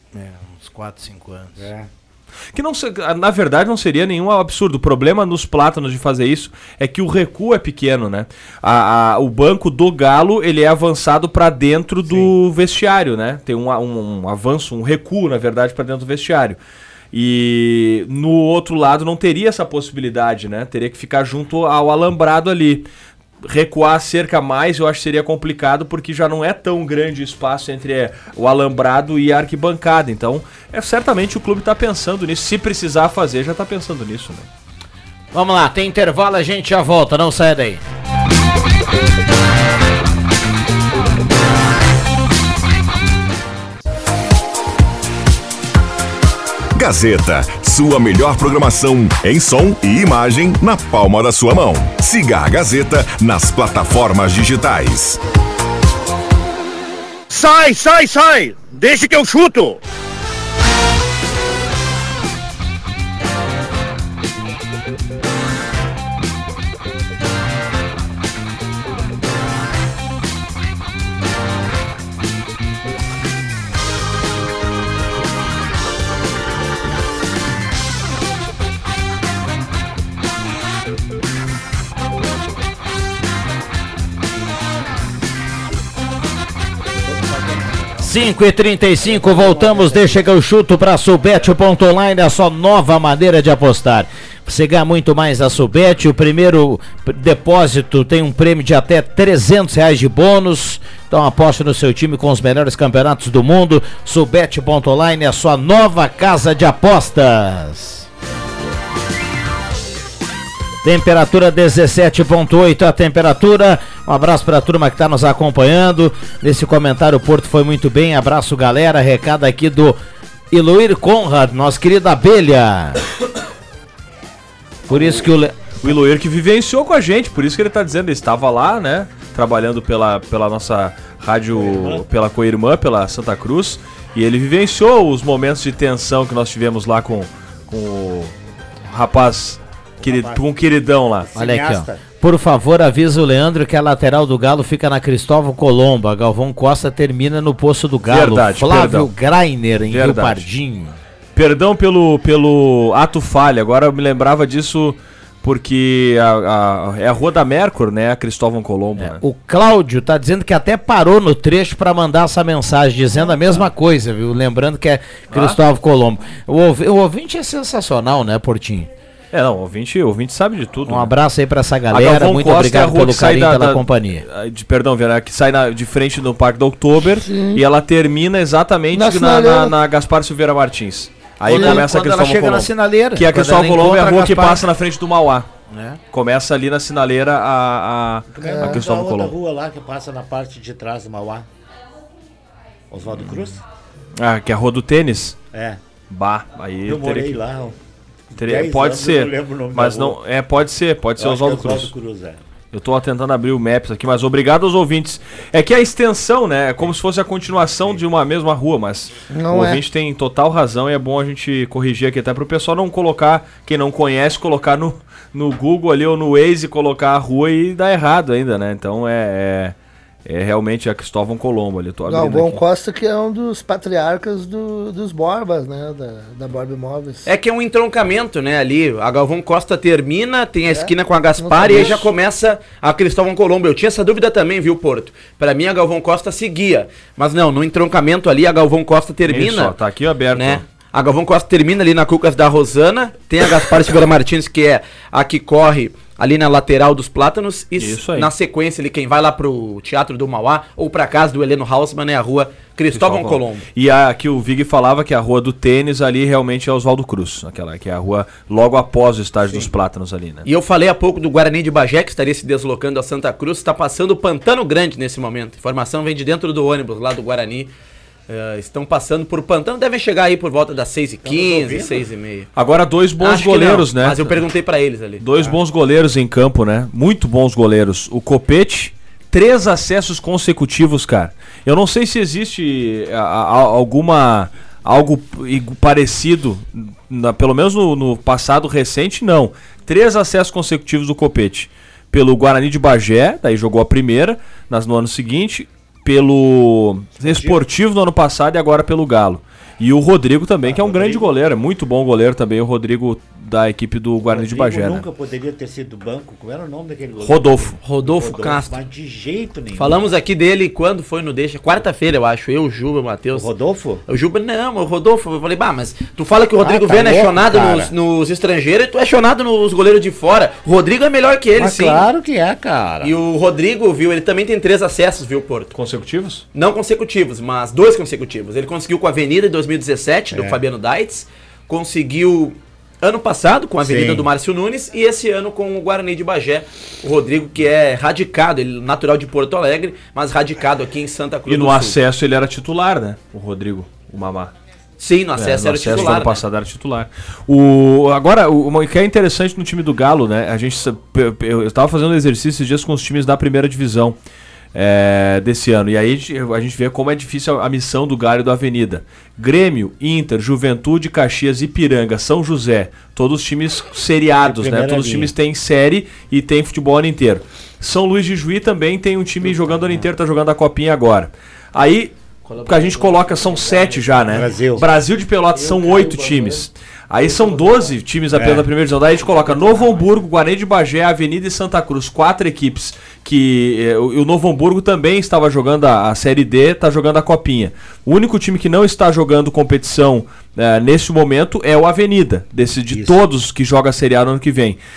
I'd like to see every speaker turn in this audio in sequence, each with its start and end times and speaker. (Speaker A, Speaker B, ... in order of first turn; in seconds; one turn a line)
Speaker A: 0.1-1.7
Speaker B: 1.6-1.9
Speaker C: 2.5-16.6
Speaker B: 12.1-12.3
Speaker C: 17.1-22.9
Speaker C: 23.4-34.5
Speaker A: 35.3-37.8
Speaker D: 46.8-55.2
Speaker E: 57.3-59.8
Speaker B: 87.0-87.9
Speaker A: 88.0-108.1
Speaker B: 89.0-90.3
Speaker A: 110.8-120.0
Speaker A: 120.5-123.1
Speaker A: 124.9-125.6
Speaker B: 124.9-125.3
Speaker C: 125.8-138.3
Speaker B: 131.5-132.1
Speaker C: 138.9-141.3
Speaker B: 140.0-140.5
Speaker B: 141.2-142.0
Speaker A: 141.3-151.0
Speaker C: 148.1-149.1
Speaker C: 149.9-150.5
Speaker C: 151.3-159.2
Speaker A: 159.0-168.9
Speaker C: 165.3-165.6
Speaker C: 169.3-171.1
Speaker A: 170.9-174.2
Speaker C: 171.9-185.5
Speaker F: 177.2-177.6
Speaker F: 178.9-179.8
Speaker A: 181.4-184.7
Speaker F: 181.5-181.8
Speaker A: 185.7-186.0
Speaker C: 186.1-189.3
Speaker B: 188.3-191.5
Speaker F: 188.4-188.8
Speaker B: 192.9-193.6
Speaker C: 194.2-195.4
Speaker B: 195.5-195.8
Speaker C: 196.1-197.4
Speaker B: 196.8-197.8
Speaker B: 198.3-200.2
Speaker C: 198.3-201.9
Speaker B: 201.2-202.4
Speaker C: 202.7-219.8
Speaker F: 209.3-209.8
Speaker C: 220.3-222.6
Speaker F: 222.1-227.3
Speaker G: 227.3-239.8
Speaker F: 230.7-232.1
Speaker C: 239.3-240.6
Speaker G: 240.3-253.7
Speaker C: 247.8-248.3
Speaker C: 252.9-260.5
Speaker G: 260.4-267.7
Speaker G: 268.3-272.5
Speaker B: 271.2-272.0
Speaker C: 272.6-274.4
Speaker G: 273.2-275.2
Speaker C: 275.2-305.1
Speaker B: 297.2-297.6
Speaker B: 300.6-301.3
Speaker B: 304.2-310.0
Speaker C: 307.2-307.8
Speaker G: 307.8-308.8
Speaker G: 309.7-313.5
Speaker B: 313.3-314.0
Speaker G: 314.1-322.0
Speaker B: 316.6-317.9
Speaker B: 321.6-323.1
Speaker G: 323.0-325.7
Speaker C: 325.8-326.4
Speaker G: 326.5-342.0
Speaker B: 330.3-330.6
Speaker B: 333.8-334.3
Speaker C: 341.5-344.5
Speaker G: 345.0-346.4
Speaker C: 345.4-354.2
Speaker C: 354.7-394.8
Speaker B: 364.4-365.3
Speaker B: 369.7-370.0
Speaker G: 372.4-374.9
Speaker B: 374.3-374.9
Speaker G: 375.6-376.7
Speaker G: 377.2-378.0
Speaker B: 378.3-378.7
Speaker G: 379.2-380.1
Speaker B: 392.9-393.2